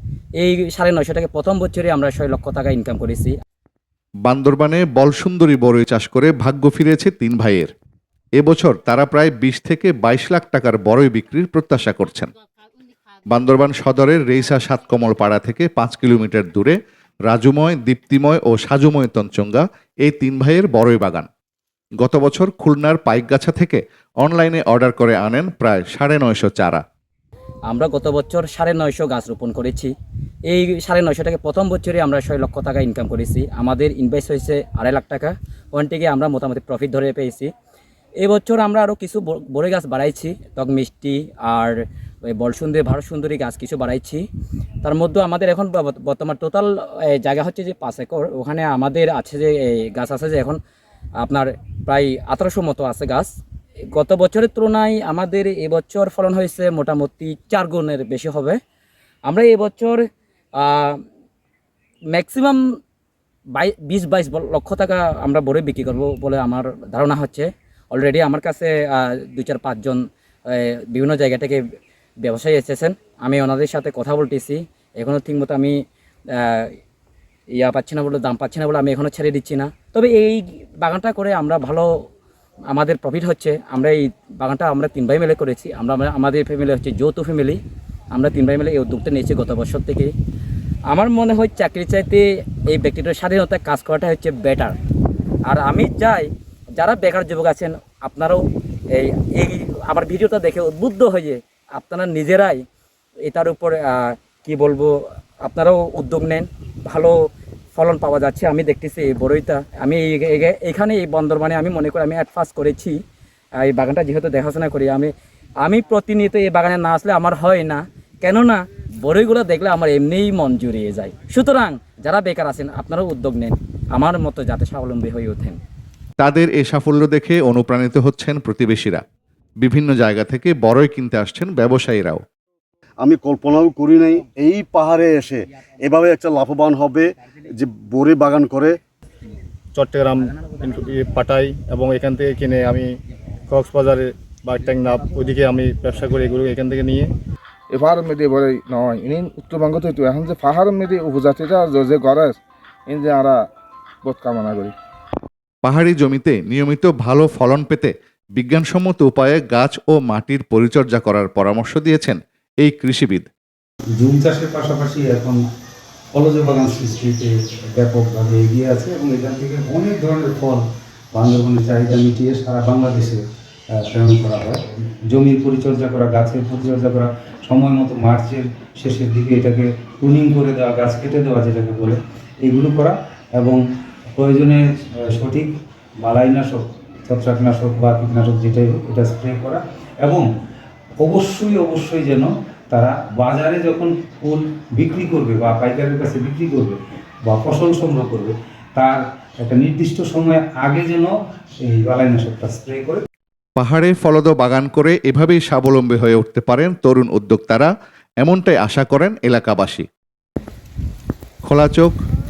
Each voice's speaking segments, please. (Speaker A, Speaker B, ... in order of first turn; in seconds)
Speaker A: 0.4-3.3, 27.7-29.9, 30.5-37.5, 38.2-44.3, 44.8-50.6, 51.2-53.3, 53.9-58.6, 59.3-60.0, 60.5-61.0, 62.1-62.6, 63.5-71.6, 72.2-75.8, 76.3-76.8, 77.5-81.9, 82.7-87.6, 88.1-90.1, 90.9-94.8, 95.5-102.6, 103.2-107.2, 107.8-113.0, 113.6-115.1, 115.6-125.6
Speaker B: 4.2-7.7, 8.4-12.3, 13.3-16.8, 17.3-21.3, 22.0-26.8, 126.2-129.0, 129.6-132.2, 155.6-163.3, 203.6-207.7, 208.2-209.8, 211.4-211.9
Speaker C: 133.0-138.8
Speaker D: 139.8-142.9, 143.5-147.1
Speaker E: 147.8-152.3, 152.9-153.3, 154.1-154.7
Speaker F: 164.0-165.4, 166.1-183.6, 184.1-190.3, 191.0-203.0